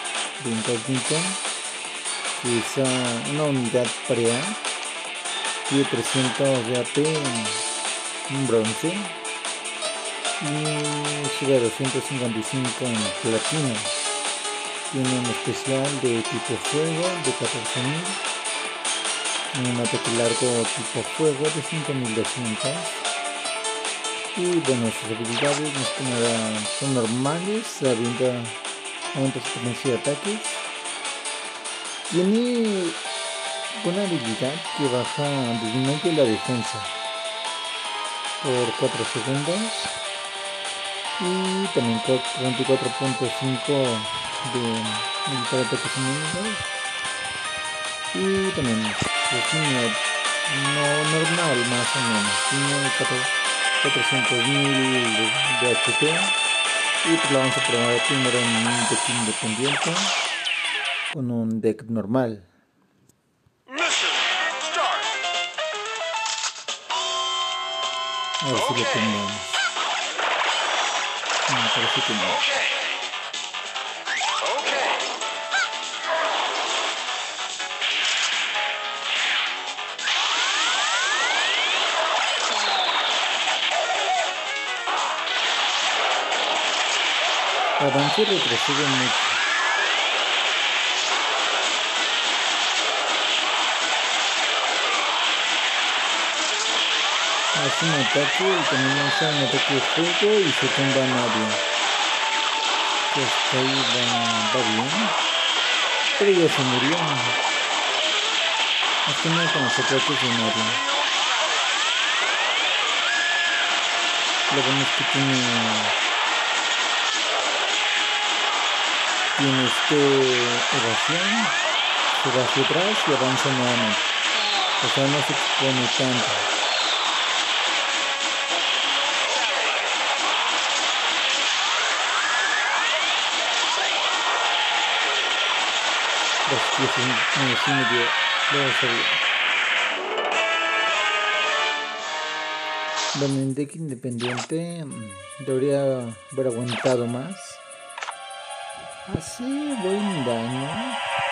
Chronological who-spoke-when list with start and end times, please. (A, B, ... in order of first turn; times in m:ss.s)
0:00.4-0:01.4 A
0:02.4-0:04.6 A
0:05.7-0:07.6 A
0:08.3-0:09.2 A
0:10.4-0:13.9 A
0:14.9-0:18.2 A
0:19.5-0:22.9 A
0:24.3-0:28.6 A
0:29.1-0:30.6 A
0:32.1-0:33.0 A
0:33.7-0:36.9 A
0:38.4-0:40.0 A
0:41.2-0:46.7 A
0:48.1-0:56.4 A
0:57.0-1:00.1 A
1:01.1-1:02.5 A
1:08.4-1:09.4 A
1:11.5-1:12.6 A
1:27.8-1:29.4 A
1:37.5-1:41.6 A
1:43.1-1:45.2 A
1:46.2-1:47.4 A
1:49.0-1:50.9 A
1:54.5-1:56.0 A
1:59.4-2:01.6 A
2:02.1-2:04.1 A
2:04.8-2:06.5 A
2:16.4-2:19.2 A
2:23.1-2:27.6 A
2:29.1-2:31.0 A